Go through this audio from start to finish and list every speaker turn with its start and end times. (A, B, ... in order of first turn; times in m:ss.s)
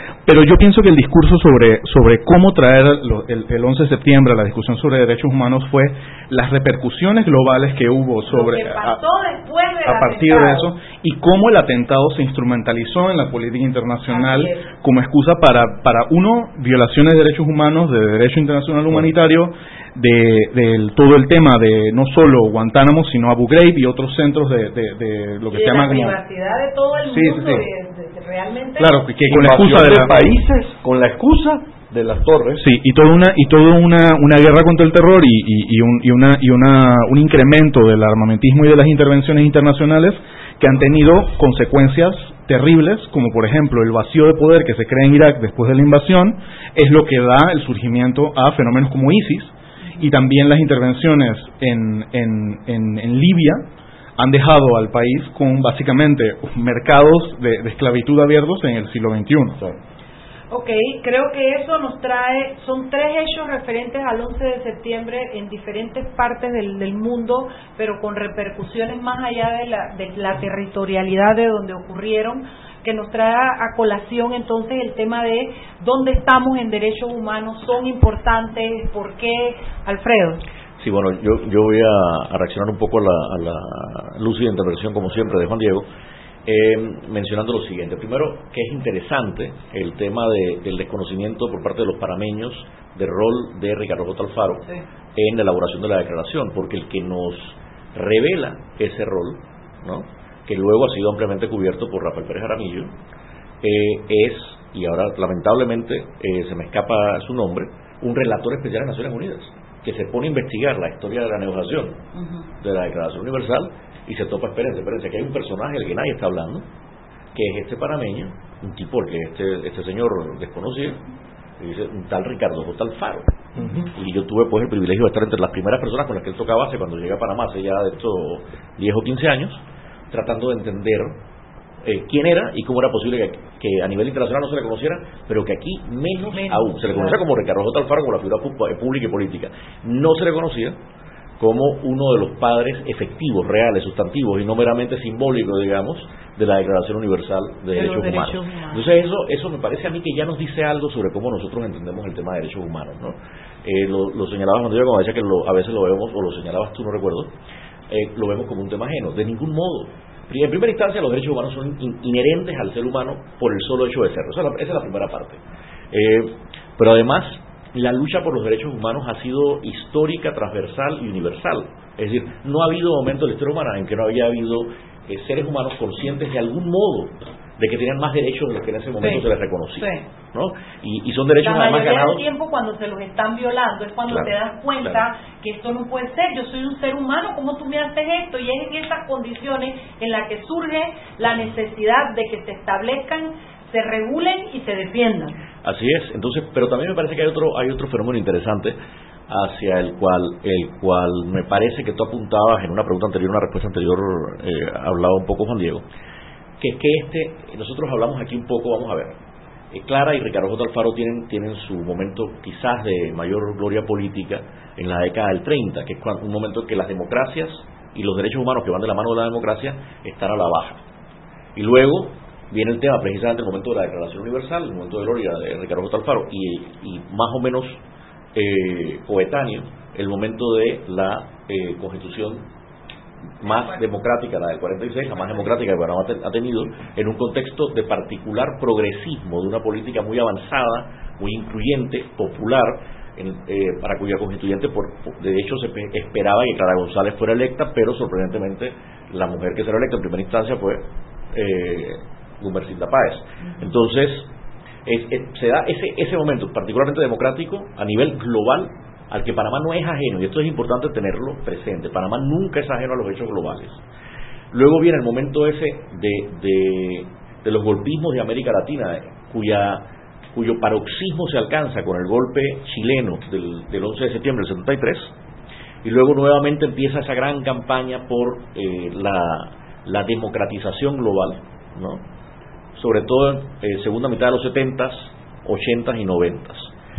0:00.2-0:09.0 A
0:08.3-0:10.7 B
0:09.8-0:26.2 A
0:14.1-0:14.6 B
0:25.5-0:29.0 B
0:27.1-0:27.6 A
0:28.8-0:30.3 A
0:29.3-0:32.6 C
0:32.6-0:53.6 A
0:54.2-0:59.6 A
1:00.5-1:20.4 B
1:20.8-1:25.9 D
1:26.4-1:34.6 D
1:35.1-1:42.9 D
1:43.6-1:52.0 D
1:52.1-1:52.4 B
1:52.6-1:56.6 D
1:57.3-2:01.0 D
2:01.6-2:11.2 D
2:11.8-2:20.8 D
2:16.3-2:17.2 B
2:21.4-2:37.3 D
2:27.7-2:28.9 B
2:37.9-2:45.4 D
2:45.9-3:02.2 D
2:59.0-2:59.2 B
2:59.8-3:00.0 B
3:01.4-3:15.4 B
3:15.6-3:18.8 D
3:19.3-3:25.8 D
3:26.6-3:29.2 D
3:29.7-3:40.8 D
3:41.5-3:47.8 D
3:48.3-3:52.4 D
3:53.4-4:14.3 D
4:14.8-4:23.8 D
4:24.5-4:35.1 D
4:35.8-4:42.0 D
4:42.7-4:46.7 D